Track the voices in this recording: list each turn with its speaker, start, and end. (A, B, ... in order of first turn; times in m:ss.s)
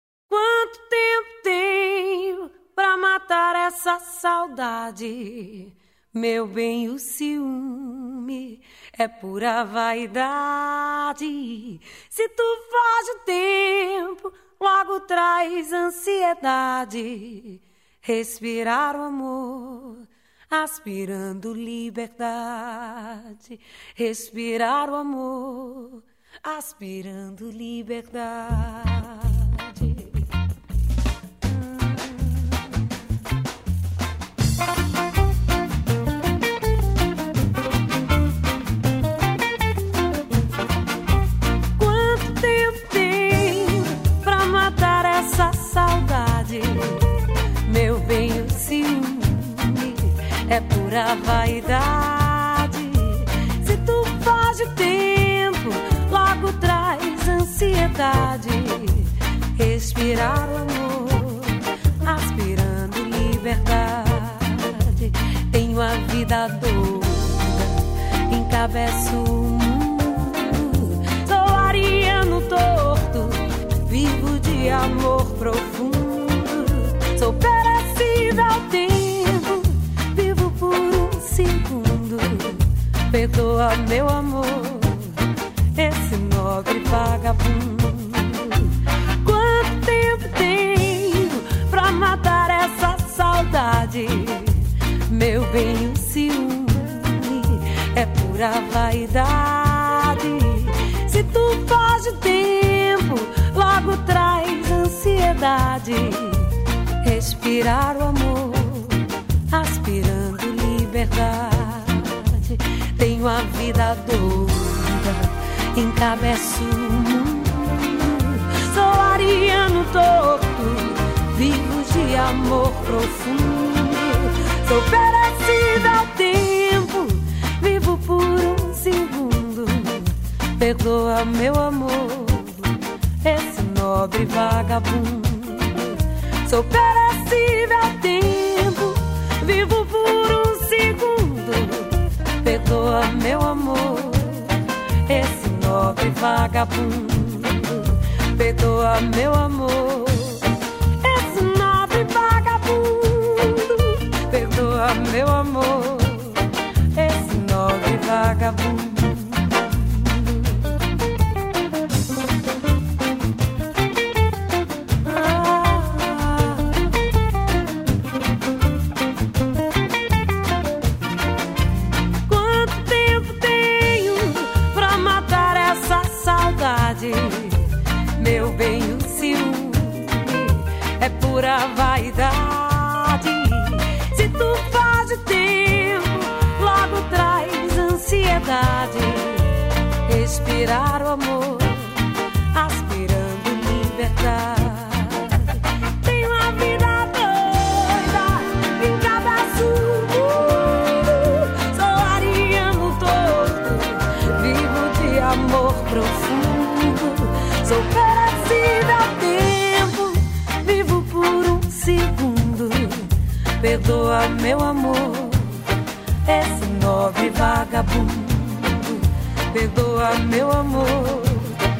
0:00.3-0:30.3 A
0:31.4-0:32.6 A
0:41.8-1:25.2 A
1:25.8-2:24.6 A
2:25.1-2:30.5 A
2:31.0-2:40.8 A
2:45.0-2:46.9 A
2:52.3-3:35.6 A
3:36.3-3:41.6 A